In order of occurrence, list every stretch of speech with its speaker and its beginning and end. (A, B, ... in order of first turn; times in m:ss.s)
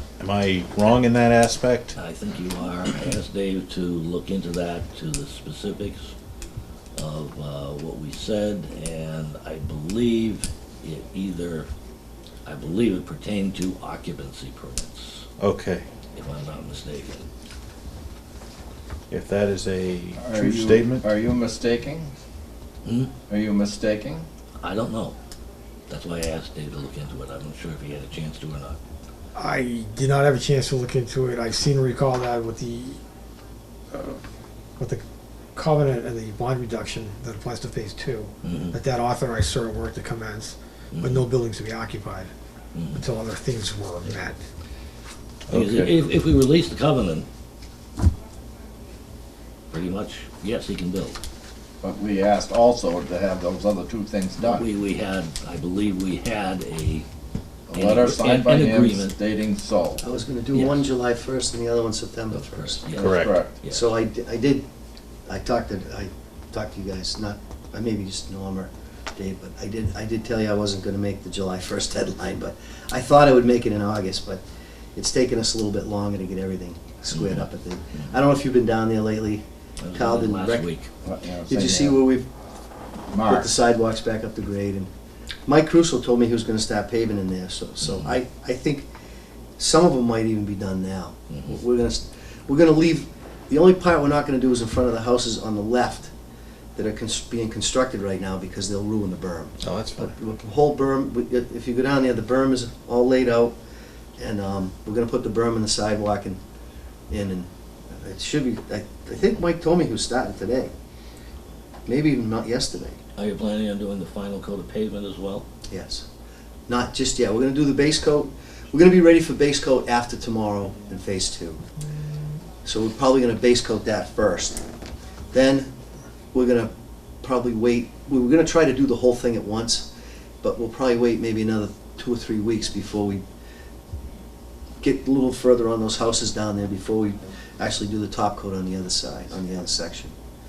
0:00.2-0:01.9 A
0:02.0-0:06.1 B
0:07.0-0:11.7 B
0:12.4-0:15.2 B
0:15.4-0:15.8 A
0:16.1-0:17.3 B
0:19.1-0:21.0 A
0:20.2-0:22.1 C
0:22.8-0:23.1 B
0:23.2-0:24.2 C
0:24.6-0:25.1 B
0:25.9-0:28.8 B
0:29.3-0:33.0 D
0:34.8-0:35.0 D
0:35.5-0:42.3 D
0:38.4-0:38.7 B
0:40.9-0:41.3 B
0:42.7-0:43.0 B
0:42.9-0:44.4 D
0:45.5-0:45.9 A
0:45.5-0:47.2 B
0:49.7-0:51.2 B
0:51.8-0:54.6 C
0:54.4-0:57.0 B
0:57.7-1:00.0 C
0:57.7-0:59.1 B
1:00.0-1:02.8 E
1:00.5-1:00.9 B
1:02.3-1:03.9 B
1:02.9-1:03.5 C
1:03.0-1:03.4 A
1:03.6-1:04.6 E
1:05.3-1:14.4 E
1:15.0-1:19.4 E
1:17.1-1:17.4 B
1:19.8-1:20.9 B
1:19.9-1:20.7 E
1:21.0-1:22.0 C
1:21.5-1:22.3 E
1:23.1-1:23.5 C
1:23.2-1:24.9 E
1:25.5-1:28.9 E
1:27.8-1:28.1 B
1:29.6-1:36.1 E
1:31.3-1:31.6 B
1:36.8-1:43.5 E
1:39.6-1:40.1 A
1:44.2-1:46.4 E
1:47.1-1:50.7 E
1:51.8-1:53.0 E
1:53.2-1:55.4 B
1:55.7-1:56.0 E
1:56.7-2:01.6 E
2:02.6-2:04.6 E
2:05.3-2:05.7 E
2:06.3-2:06.7 E
2:07.2-2:09.9 E
2:10.4-2:13.2 E
2:14.8-2:20.1 E